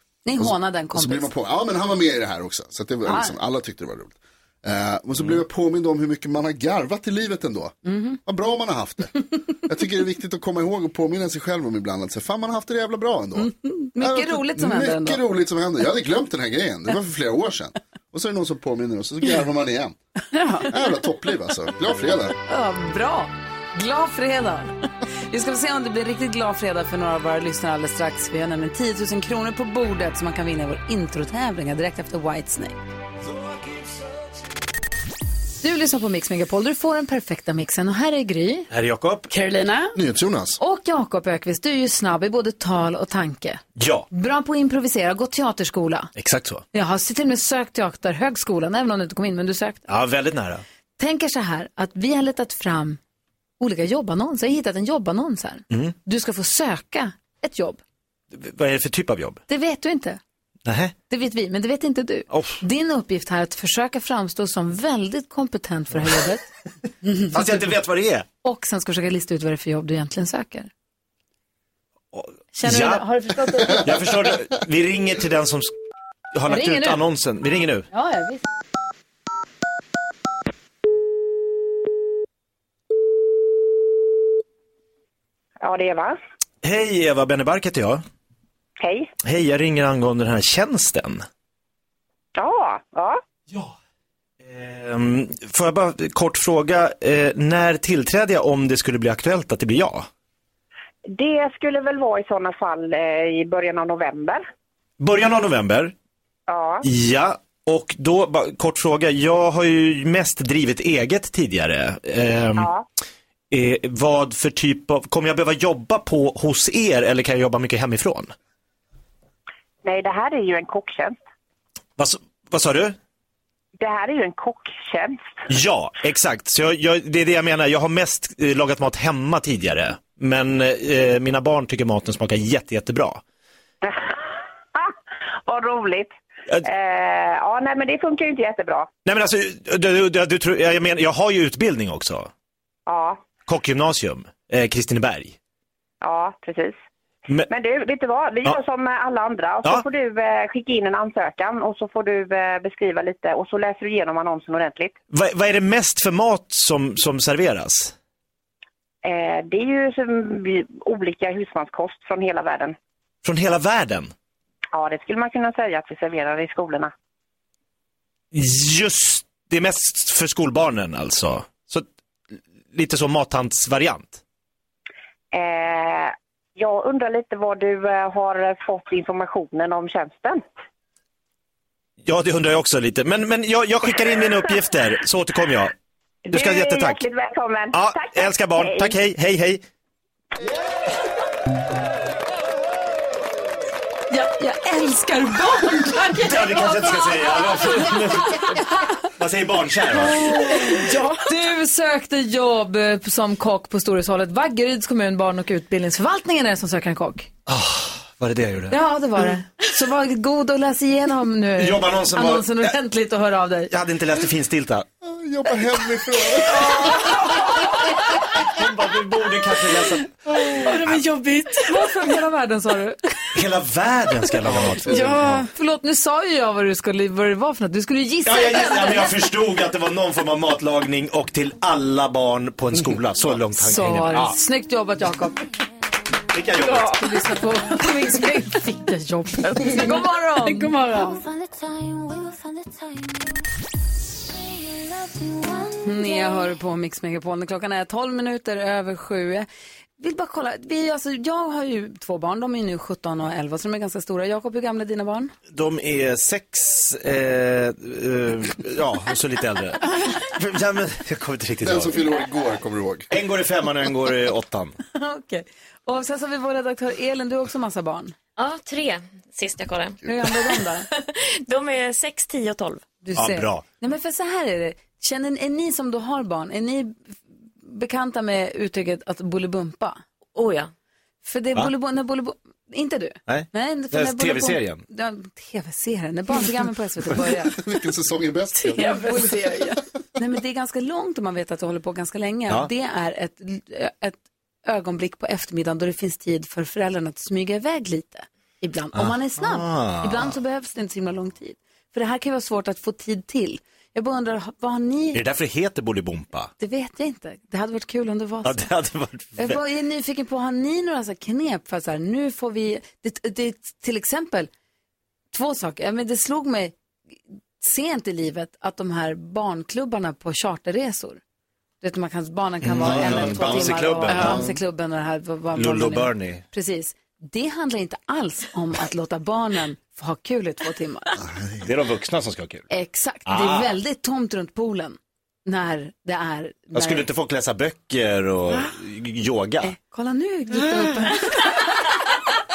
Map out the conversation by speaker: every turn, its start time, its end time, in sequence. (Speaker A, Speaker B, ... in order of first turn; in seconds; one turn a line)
Speaker A: 0.2-1.3
Speaker B: 0.4-20.0
Speaker A: 3.1-3.4
Speaker A: 7.8-8.2
Speaker A: 13.4-15.2
Speaker C: 20.3-20.7
Speaker B: 20.7-22.4
Speaker A: 22.5-32.8
Speaker D: 33.4-33.9
Speaker A: 35.6-38.7
Speaker E: 38.7-39.3
Speaker C: 39.3-40.0
Speaker B: 40.0-40.6
Speaker A: 40.6-46.1
Speaker E: 43.8-44.1
Speaker E: 46.2-46.6
Speaker A: 46.7-49.9
Speaker E: 49.9-50.6
Speaker A: 51.0-53.0
Speaker A: 53.6-57.8
Speaker E: 58.3-59.4
Speaker A: 59.5-60.2
Speaker E: 60.7-60.9
Speaker A: 61.1-66.5
Speaker E: 62.3-62.6
Speaker E: 67.3-68.3
Speaker A: 68.4-70.7
Speaker E: 72.1-73.0
Speaker A: 72.6-74.0
Speaker E: 73.7-75.7
Speaker E: 76.3-77.9
Speaker A: 76.5-77.0
Speaker A: 77.9-78.4
Speaker F: 85.6-86.2
Speaker E: 86.6-88.0
Speaker F: 88.8-89.1
Speaker E: 89.2-91.2
Speaker F: 92.4-93.2
Speaker E: 94.4-100.1
Speaker F: 101.1-104.4
Speaker E: 105.0-105.9
Speaker F: 106.5-106.8
Speaker E: 106.8-112.7
Speaker F: 112.6-112.9
Speaker E: 113.5-118.3
Speaker F: 119.8-121.2
Speaker E: 122.0-123.0
Speaker F: 123.8-125.4
Speaker E: 125.5-133.2
Speaker F: 133.8-134.2
Speaker F: 134.8-138.9
Speaker E: 139.1-142.3
Speaker F: 142.9-143.2
Speaker E: 143.5-145.4
Speaker F: 146.0-146.8
Speaker F: 147.5-154.9
Speaker E: 155.1-157.9
Speaker F: 159.0-162.8
Speaker E: 163.2-164.1
Speaker F: 164.7-166.9
Speaker E: 168.3-174.2
Speaker F: 175.3-180.4
Speaker E: 182.1-185.7
Speaker F: 186.3-189.0
Speaker E: 186.3-187.0
Speaker E: 187.7-189.6
Speaker A: 194.1-198.7
Speaker E: 196.2-198.6
Speaker E: 199.2-200.6
Speaker C: 199.9-201.3
Speaker A: 200.2-207.3
Speaker E: 207.5-208.8
Speaker A: 208.7-213.7
Speaker E: 211.6-212.7
Speaker E: 213.7-214.9
Speaker B: 215.0-217.1
Speaker A: 216.1-217.6
Speaker C: 216.7-217.2
Speaker E: 218.4-221.0
Speaker C: 220.6-222.0
Speaker A: 221.6-223.1
Speaker E: 223.3-225.4
Speaker B: 224.4-225.4
Speaker C: 224.9-225.5
Speaker A: 225.6-229.3
Speaker E: 228.2-234.4
Speaker A: 233.5-235.4
Speaker E: 236.3-237.0
Speaker C: 236.6-241.2
Speaker A: 236.9-240.9
Speaker D: 240.9-243.4
Speaker D: 244.3-246.5
Speaker A: 245.8-249.5
Speaker A: 250.0-255.3
Speaker E: 255.5-262.1
Speaker B: 261.6-263.1
Speaker E: 263.1-264.8
Speaker A: 264.9-268.2
Speaker D: 268.4-272.9
Speaker A: 270.1-270.9
Speaker A: 273.0-277.0
Speaker E: 273.2-273.6
Speaker A: 277.6-280.0
Speaker D: 280.3-280.7
Speaker A: 281.2-287.6
Speaker E: 283.3-284.8
Speaker B: 287.5-289.7
Speaker C: 288.6-289.8
Speaker A: 288.8-305.2
Speaker E: 298.9-300.4
Speaker E: 305.1-306.5
Speaker A: 306.6-308.7
Speaker E: 308.4-309.6
Speaker A: 309.4-314.5
Speaker A: 315.3-316.8
Speaker A: 317.6-321.2
Speaker A: 321.8-331.2
Speaker E: 322.6-324.4
Speaker B: 322.9-323.6
Speaker C: 324.1-324.4
Speaker B: 324.1-324.6
Speaker E: 325.6-326.4
Speaker B: 331.2-331.7
Speaker E: 331.6-332.7
Speaker A: 332.7-337.1
Speaker E: 333.3-333.8
Speaker E: 336.7-339.8
Speaker A: 339.6-341.9
Speaker C: 340.5-341.6